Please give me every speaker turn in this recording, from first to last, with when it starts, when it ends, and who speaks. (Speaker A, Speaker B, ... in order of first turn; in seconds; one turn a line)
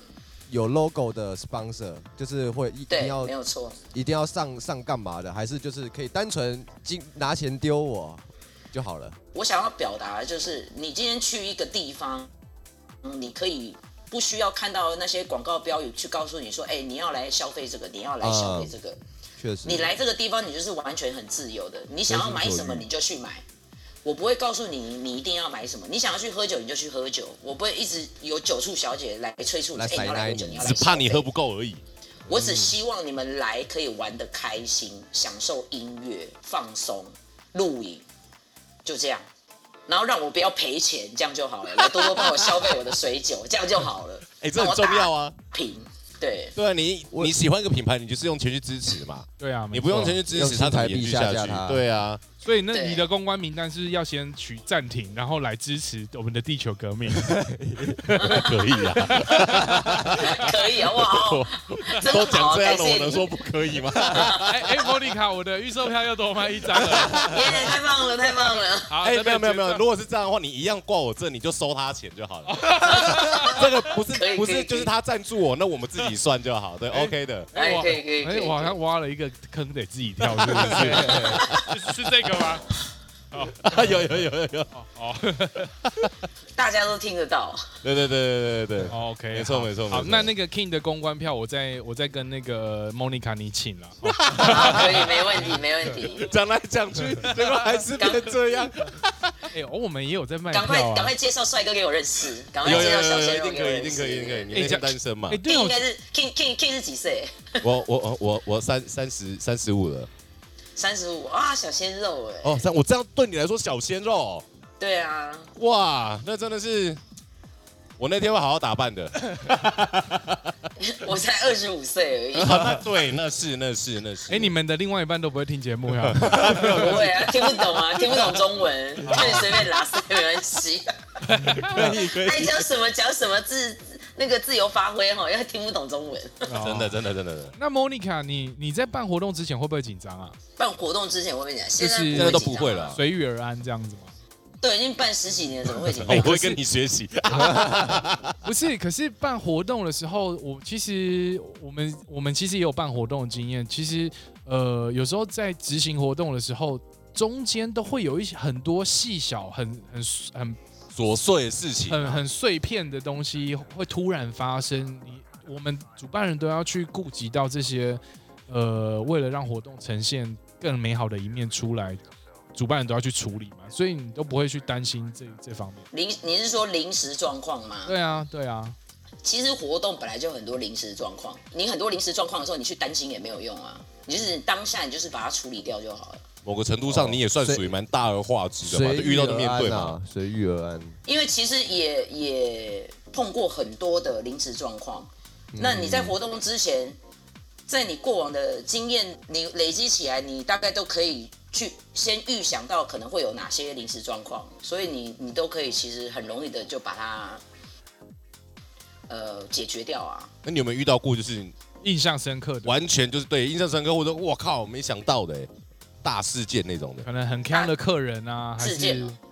Speaker A: 0.5-3.3
Speaker B: 2.9-3.8
Speaker A: 3.9-9.2
Speaker B: 9.3-12.3
Speaker B: 13.0-19.0
Speaker A: 18.2-18.8
Speaker A: 19.4-19.9
Speaker B: 19.6-23.4
Speaker A: 22.1-22.9
Speaker B: 24.0-31.3
Speaker A: 29.8-30.8
Speaker C: 30.6-31.8
Speaker A: 32.3-32.8
Speaker B: 32.3-38.0
Speaker B: 38.9-39.2
Speaker B: 39.9-46.5
Speaker C: 44.4-45.4
Speaker C: 46.6-52.2
Speaker A: 47.1-47.4
Speaker D: 49.4-50.2
Speaker A: 50.3-51.9
Speaker D: 52.4-57.4
Speaker B: 52.7-53.1
Speaker A: 57.1-58.2
Speaker D: 58.1-59.7
Speaker B: 58.2-58.5
Speaker C: 58.2-64.9
Speaker A: 59.6-60.0
Speaker B: 60.0-63.3
Speaker B: 64.1-64.5
Speaker D: 64.4-67.7
Speaker B: 67.2-68.9
Speaker D: 68.9-69.8
Speaker C: 69.0-77.5
Speaker D: 72.5-73.7
Speaker B: 72.8-73.6
Speaker B: 74.1-74.9
Speaker D: 76.9-82.8
Speaker B: 77.5-78.8
Speaker C: 80.3-81.8
Speaker A: 80.7-81.5
Speaker D: 83.3-83.9
Speaker C: 83.6-84.7
Speaker D: 84.7-85.7
Speaker C: 85.8-86.1
Speaker B: 86.6-87.7
Speaker C: 87.8-90.3
Speaker D: 88.9-95.6
Speaker C: 94.0-95.4
Speaker B: 94.4-96.3
Speaker C: 96.1-99.5
Speaker B: 98.0-98.3
Speaker D: 99.5-101.1
Speaker B: 100.5-104.8
Speaker C: 102.6-105.4
Speaker D: 104.5-105.8
Speaker B: 105.5-107.6
Speaker C: 107.6-110.1
Speaker B: 110.8-112.6
Speaker C: 112.4-114.5
Speaker B: 114.8-115.5
Speaker C: 115.6-117.0
Speaker C: 118.0-120.5
Speaker B: 120.8-122.8
Speaker C: 122.4-124.5
Speaker D: 124.3-127.1
Speaker C: 126.0-128.4
Speaker B: 126.8-130.9
Speaker C: 129.1-129.6
Speaker D: 129.1-129.6
Speaker D: 131.3-131.9
Speaker C: 131.4-132.7
Speaker A: 131.5-131.8
Speaker B: 131.8-136.5
Speaker D: 136.5-137.0
Speaker C: 136.6-137.6
Speaker D: 137.6-140.4
Speaker B: 140.6-143.0
Speaker D: 141.8-144.1
Speaker C: 142.1-143.0
Speaker B: 144.6-146.3
Speaker C: 145.9-148.3
Speaker D: 146.1-146.6
Speaker D: 148.4-160.6
Speaker C: 160.9-162.2
Speaker D: 161.9-172.0
Speaker D: 172.5-175.9
Speaker B: 175.9-177.9
Speaker D: 177.9-178.8
Speaker B: 179.2-186.2
Speaker C: 186.4-189.9
Speaker A: 186.8-187.7
Speaker A: 188.6-191.0
Speaker B: 191.1-197.0
Speaker A: 195.5-196.2
Speaker B: 197.7-207.4
Speaker B: 209.1-210.3
Speaker C: 210.4-211.6
Speaker D: 211.8-212.8
Speaker C: 212.7-215.5
Speaker C: 216.0-217.1
Speaker D: 217.0-219.2
Speaker B: 218.6-219.1